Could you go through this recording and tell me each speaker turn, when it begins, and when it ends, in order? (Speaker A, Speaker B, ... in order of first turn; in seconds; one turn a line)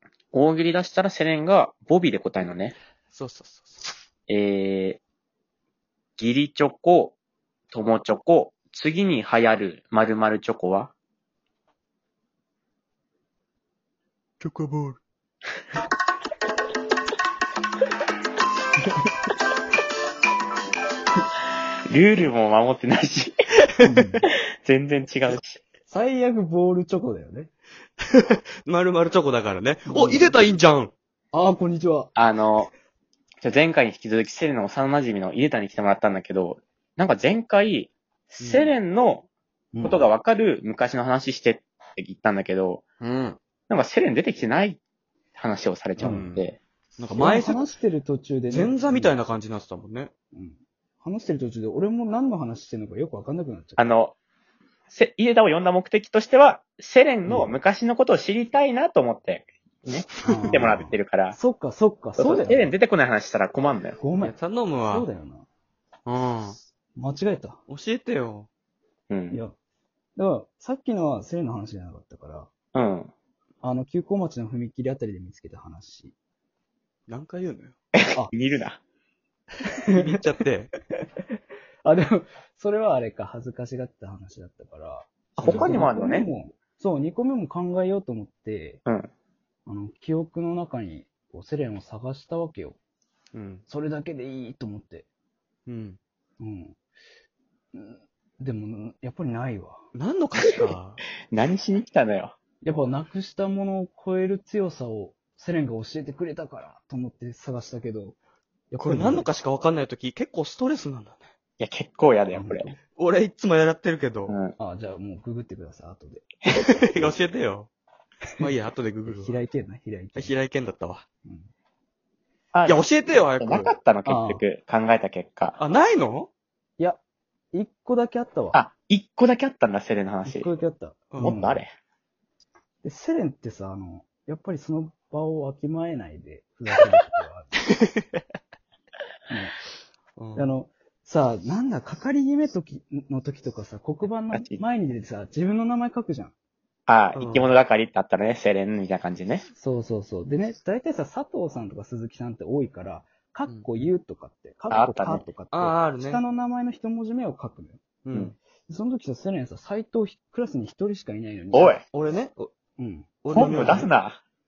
Speaker A: 0.3-2.8
Speaker B: 3.1-3.9
Speaker A: 4.3-5.0
Speaker A: 6.2-7.2
Speaker A: 7.7-10.9
Speaker B: 14.4-15.0
Speaker C: 18.8-19.1
Speaker A: 21.9-23.4
Speaker C: 23.8-24.3
Speaker A: 24.6-25.6
Speaker C: 25.9-27.5
Speaker B: 28.6-30.9
Speaker C: 29.9-30.5
Speaker C: 31.3-32.1
Speaker A: 32.2-32.7
Speaker A: 33.4-39.3
Speaker B: 38.4-38.7
Speaker C: 39.7-40.0
Speaker A: 39.8-42.8
Speaker B: 43.0-43.4
Speaker A: 43.7-44.8
Speaker A: 45.4-46.6
Speaker C: 46.0-46.4
Speaker B: 46.0-46.5
Speaker B: 47.0-47.7
Speaker C: 47.1-49.2
Speaker B: 48.5-50.1
Speaker C: 50.3-54.0
Speaker A: 53.8-54.1
Speaker A: 54.9-61.4
Speaker C: 57.3-57.6
Speaker C: 60.2-62.8
Speaker B: 60.5-60.7
Speaker A: 62.2-64.0
Speaker C: 64.0-65.5
Speaker B: 64.2-65.1
Speaker B: 66.1-66.6
Speaker C: 66.9-67.6
Speaker B: 67.7-68.5
Speaker A: 69.1-69.4
Speaker C: 70.2-72.5
Speaker A: 72.7-73.1
Speaker C: 73.6-76.1
Speaker B: 77.1-77.8
Speaker A: 78.0-78.8
Speaker B: 79.9-80.7
Speaker C: 81.8-88.8
Speaker A: 85.4-86.3
Speaker B: 85.4-85.9
Speaker C: 89.7-92.8
Speaker B: 93.3-93.6
Speaker C: 93.7-95.1
Speaker B: 95.7-96.0
Speaker C: 96.4-96.8
Speaker C: 97.7-99.8
Speaker B: 99.9-101.0
Speaker A: 101.3-102.3
Speaker C: 102.6-108.2
Speaker C: 108.7-109.3
Speaker B: 108.8-111.3
Speaker A: 111.6-112.7
Speaker C: 112.3-112.8
Speaker B: 113.0-114.4
Speaker A: 114.3-114.6
Speaker C: 114.6-116.8
Speaker B: 116.5-117.7
Speaker B: 118.4-119.4
Speaker C: 119.1-120.3
Speaker B: 120.2-121.0
Speaker A: 122.5-122.8
Speaker B: 122.7-123.7
Speaker A: 123.4-125.6
Speaker C: 124.0-124.4
Speaker B: 125.6-126.3
Speaker C: 127.5-128.6
Speaker A: 128.5-130.5
Speaker C: 130.2-131.6
Speaker A: 131.2-131.7
Speaker C: 132.8-137.5
Speaker C: 139.3-139.6
Speaker B: 140.2-140.5
Speaker C: 140.4-146.3
Speaker A: 144.3-144.6
Speaker A: 146.9-149.5
Speaker B: 147.2-147.6
Speaker C: 149.6-157.8
Speaker A: 154.7-155.2
Speaker B: 155.5-156.2
Speaker B: 158.1-158.4
Speaker C: 158.7-161.8
Speaker A: 161.5-161.8
Speaker B: 161.9-162.5
Speaker C: 162.8-163.2
Speaker B: 163.2-163.9
Speaker A: 163.3-164.2